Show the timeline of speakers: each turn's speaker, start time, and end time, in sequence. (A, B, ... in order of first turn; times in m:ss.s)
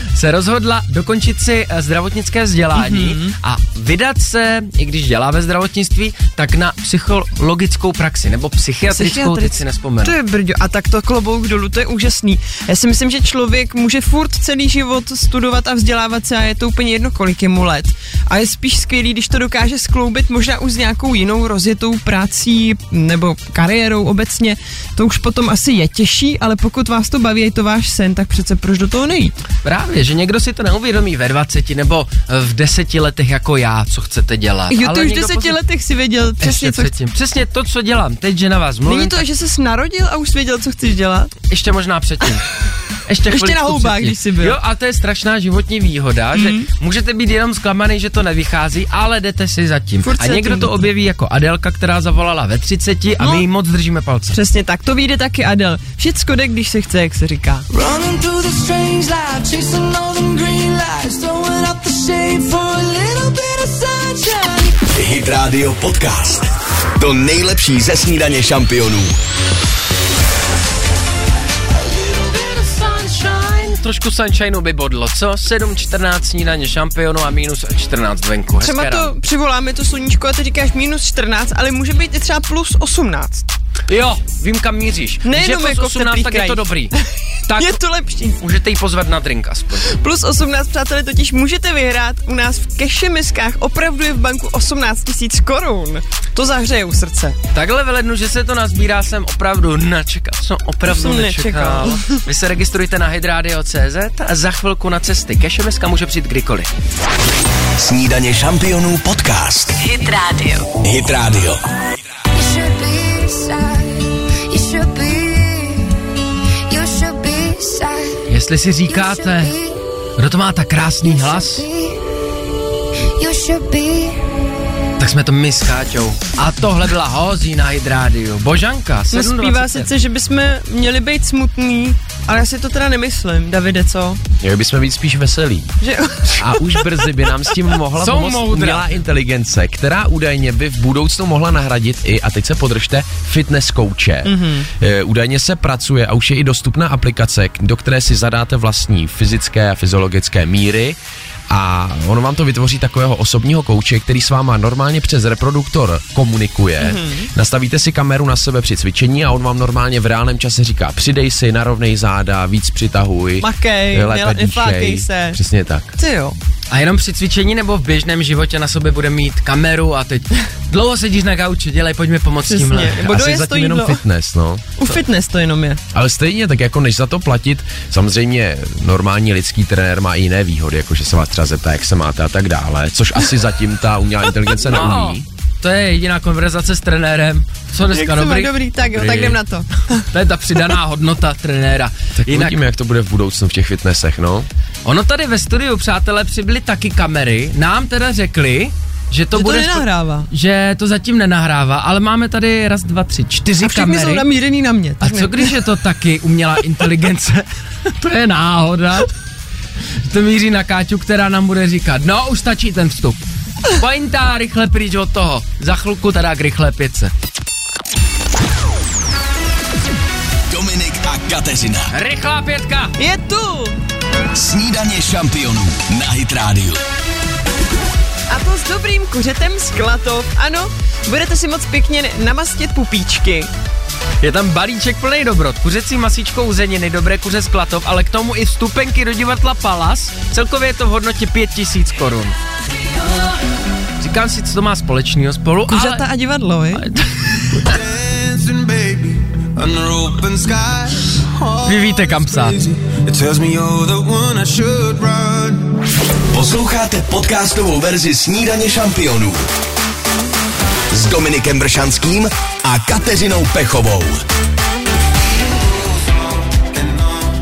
0:00.1-0:10.2 A
0:02.8-0:03.4 B
0:08.9-0:29.3 B
0:29.6-0:35.6 A
0:34.7-0:36.9 B
0:36.4-0:39.3 A
0:38.8-0:41.3 B
0:41.5-0:42.5 A
0:43.1-0:54.4 A
0:43.3-0:44.6 B
0:46.3-0:46.7 B
0:50.0-0:50.9 B
0:53.2-0:53.4 B
0:54.3-0:57.7 B
0:57.7-1:04.8 C
1:04.9-1:09.2 D
1:12.0-1:12.6 C
1:12.3-1:19.1 A
1:18.6-1:23.5 B
1:23.9-1:27.0 A
1:25.2-1:27.0 B
1:27.5-1:27.8 A
1:27.6-1:28.4 B
1:28.4-1:29.9 A
1:29.9-1:37.4 B
1:37.5-1:46.7 A
1:40.8-1:42.2 B
1:47.8-1:49.8 D
1:49.8-1:50.7 E
1:50.8-1:51.6 D
1:52.3-1:56.0 E
1:56.7-1:58.2 E
1:58.3-1:59.6 A
1:58.9-1:59.8 E
2:00.2-2:01.7 A
2:01.1-2:02.0 E
2:03.2-2:04.3 E
2:05.0-2:09.9 A
2:09.1-2:14.2 B
2:14.4-2:15.8 F
2:15.8-2:17.0 B
2:16.3-2:31.0 F
2:18.0-2:19.0 A
2:24.2-2:24.7 B
2:31.5-2:46.0 F
2:36.8-2:37.3 B
2:43.4-2:45.4 B
2:46.0-2:46.4 B
2:46.7-2:53.1 A
2:52.5-2:54.0 B
2:53.0-2:54.7 F
2:54.8-2:55.8 B
2:55.9-3:05.3 F
3:04.6-3:09.4 A
3:07.9-3:10.0 B
3:10.0-3:12.6 A
3:12.2-3:14.5 F
3:14.8-3:24.2 A
3:19.3-3:20.3 B
3:23.6-3:25.6 B
3:25.0-3:29.1 A
3:30.0-3:37.1 A
3:40.5-3:41.9 D
3:41.9-3:43.0 A
3:43.0-3:43.8 B
3:44.3-3:46.8 D
3:48.3-3:53.5 B
3:54.2-4:02.4 A
4:04.0-4:06.1 A
4:05.7-4:06.8 B
4:06.7-4:07.7 A
4:07.7-4:15.8 C
4:11.7-4:12.6 A
4:16.3-4:19.5 D
4:20.9-4:24.2 D
4:25.7-4:27.3 C